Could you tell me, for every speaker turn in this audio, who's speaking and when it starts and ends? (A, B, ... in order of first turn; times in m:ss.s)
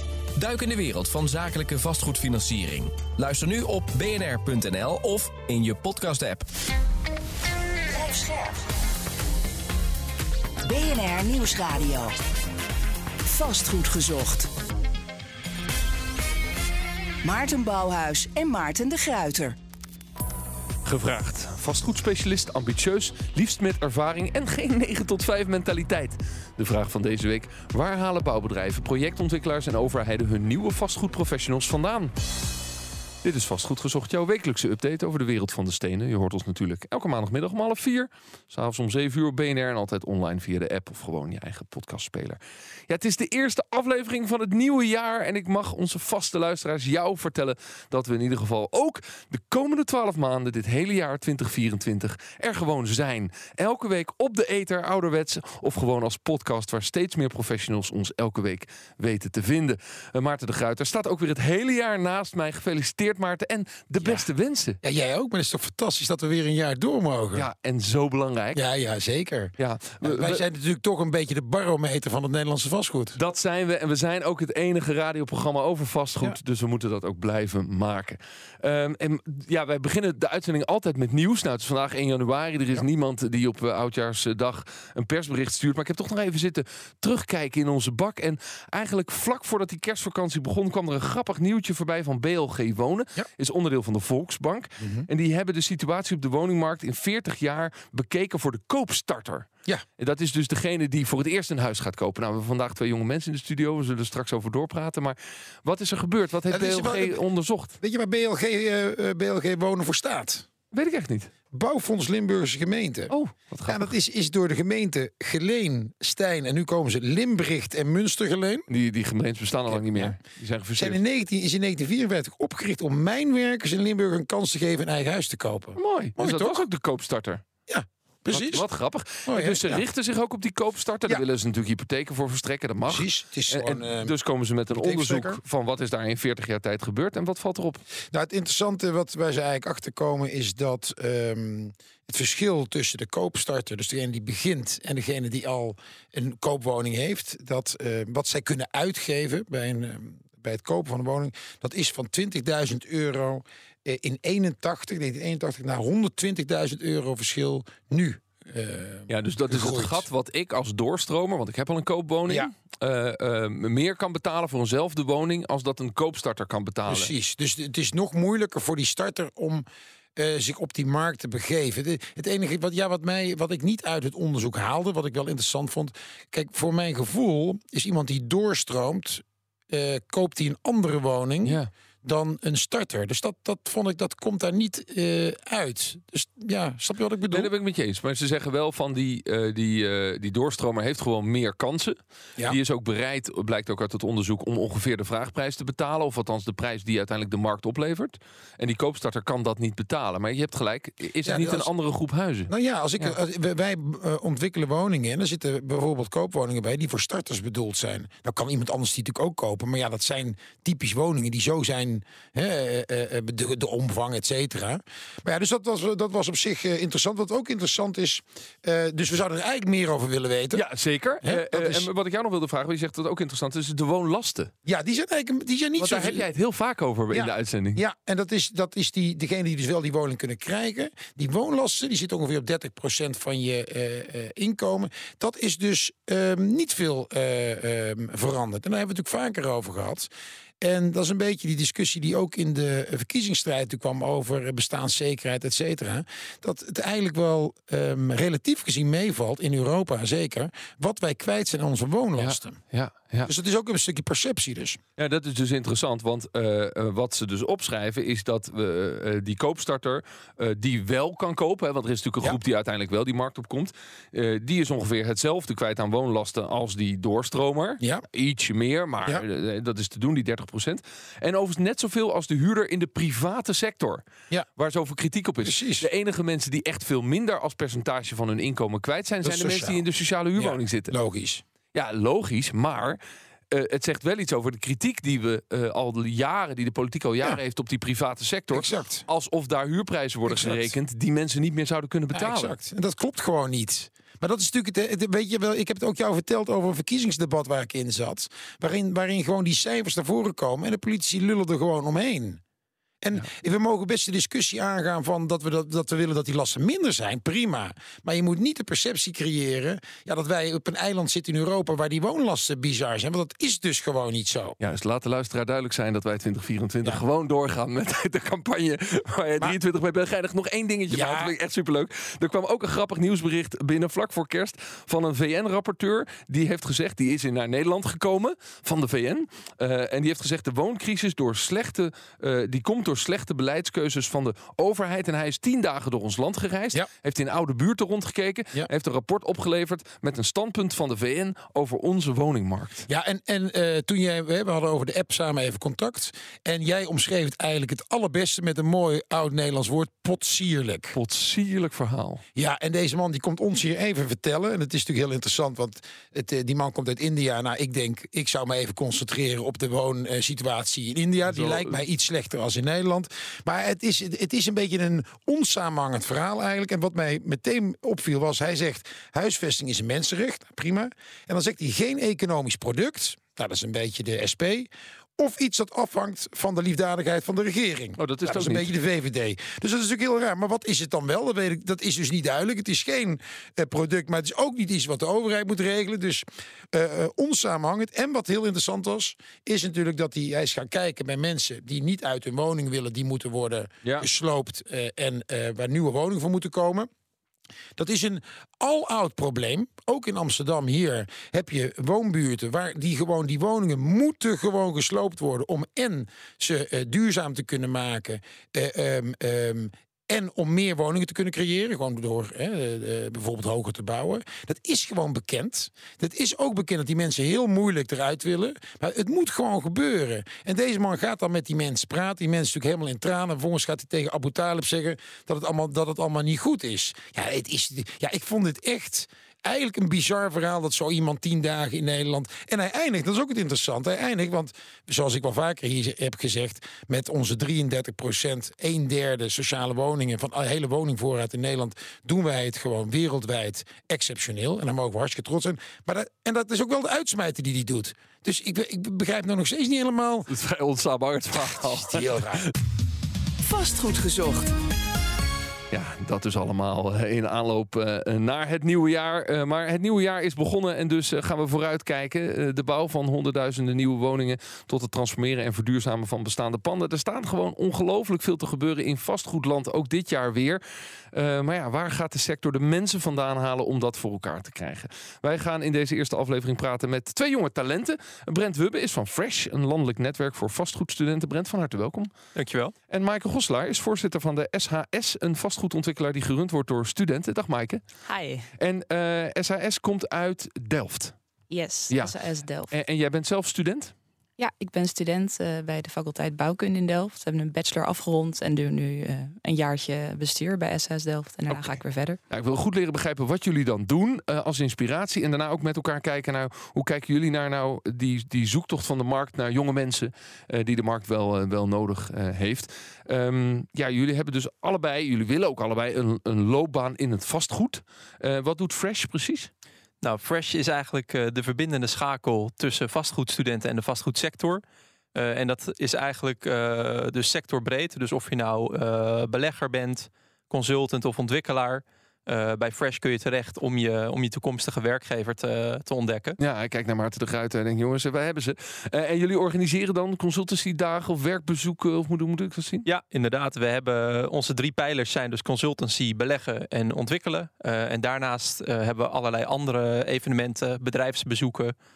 0:00.4-0:06.4 A
0:07.9-0:08.6 B
0:10.6-0:12.1 B
0:13.2-0:14.5 B
0:17.2-0:19.6 B
0:20.8-0:32.1 C
0:33.2-1:04.8 C
1:04.0-1:04.3 D
1:04.8-1:07.5 D
1:07.3-1:08.6 C
1:08.5-1:13.2 D
1:09.6-1:10.4 C
1:13.1-1:39.5 C
1:34.8-1:35.1 D
1:40.0-1:47.7 C
1:46.5-1:47.2 D
1:47.8-1:50.4 D
1:50.7-1:51.3 C
1:51.5-1:53.1 D
1:53.1-1:53.9 C
1:53.6-1:58.7 D
1:58.7-2:01.0 C
1:59.7-2:00.2 D
2:00.8-2:06.6 D
2:05.8-2:07.4 C
2:07.7-2:08.6 D
2:08.3-2:17.8 C
2:09.2-2:09.8 D
2:12.8-2:14.1 D
2:14.7-2:15.4 D
2:18.1-2:40.0 D
2:39.1-2:47.1 C
2:46.9-3:07.5 D
3:01.4-3:01.7 C
3:07.3-3:23.2 C
3:21.2-3:21.7 D
3:22.5-3:40.6 D
3:40.5-3:44.5 C
3:41.2-3:41.9 D
3:44.6-3:46.3 D
3:45.8-3:47.8 C
3:47.1-4:00.1 D
4:00.6-4:12.6 D
4:12.2-4:13.3 C
4:13.2-4:14.8 D
4:15.0-4:34.0 C
4:34.6-4:40.9 C
4:35.4-4:35.9 D
4:39.2-4:39.8 D
4:40.4-4:41.4 D
4:41.7-4:43.0 C
4:43.5-4:52.6 C
4:48.5-4:49.0 D
4:50.3-4:50.7 D
4:52.1-5:02.4 D
5:03.0-5:14.6 D
5:14.6-5:42.8 C
5:20.9-5:21.3 D
5:42.9-5:51.0 D
5:50.9-5:52.2 C
5:52.4-6:36.9 D
6:01.2-6:01.8 C
6:18.0-6:18.7 C
6:37.8-7:30.3 D
7:30.3-7:32.5 C
7:31.5-7:32.4 D
7:33.4-7:34.5 B
7:35.7-8:02.1 C
8:02.4-8:02.7 E
8:02.9-8:07.8 C
8:08.0-8:08.5 F
8:08.6-8:11.1 C
8:11.5-8:12.7 F
8:12.7-8:13.9 C
8:14.4-8:22.2 F
8:21.5-8:21.8 C
8:22.3-8:39.5 C
8:40.0-8:44.6 E
8:45.1-8:56.4 E
8:56.4-9:02.8 C
9:02.8-9:11.7 E